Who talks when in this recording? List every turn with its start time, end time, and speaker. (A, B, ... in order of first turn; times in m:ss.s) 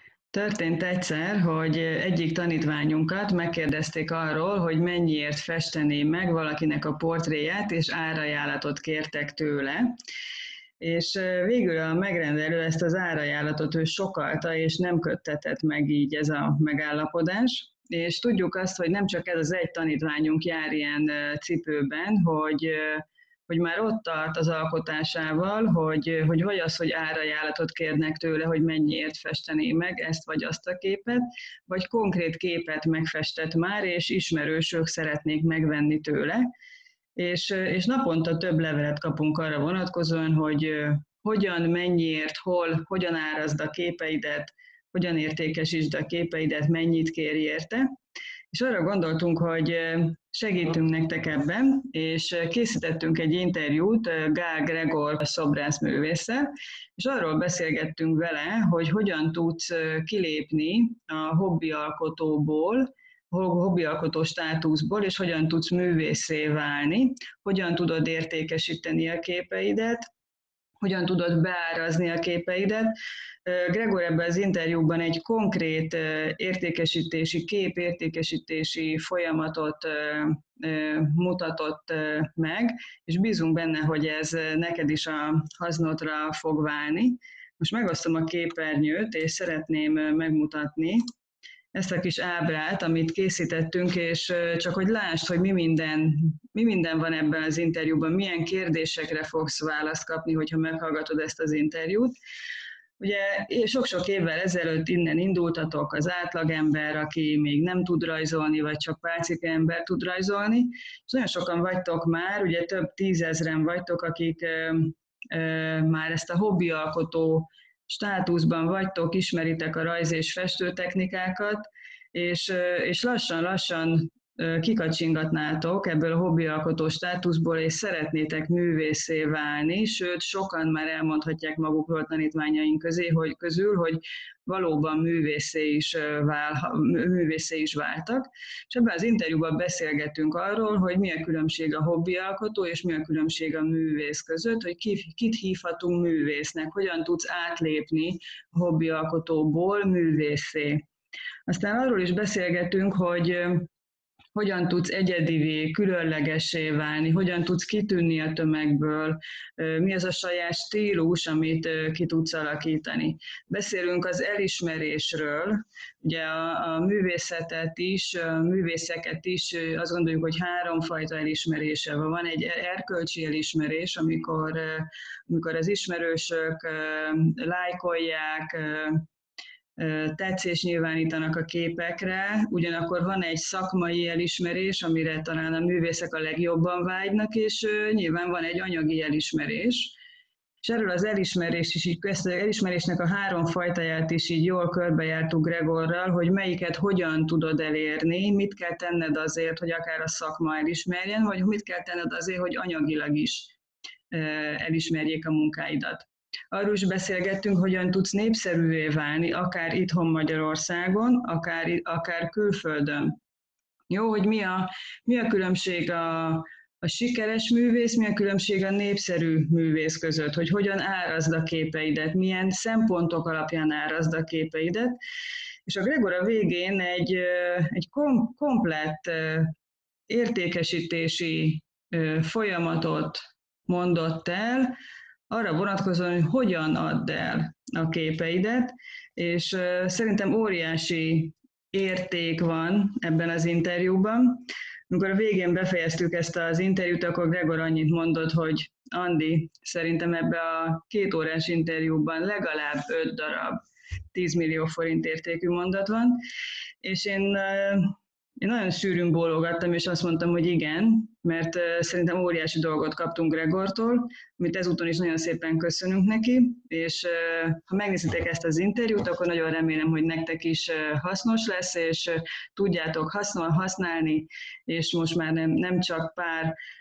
0:00.3-0:09.9 A
0:10.8-0:36.4 A
0:37.2-0:47.8 A
0:48.5-1:10.0 A
1:10.8-1:12.9 A
1:13.4-1:31.0 A
1:31.7-1:42.1 A
1:43.0-2:30.8 A
2:31.5-2:33.7 A
2:34.3-2:59.0 A
2:59.8-3:10.0 A
3:10.6-3:23.5 A
3:24.1-3:33.2 A
3:33.9-3:44.9 A
3:45.6-3:49.5 A
3:50.1-3:54.7 A
3:55.3-4:13.6 A
4:14.1-4:16.2 A
4:16.8-4:36.5 A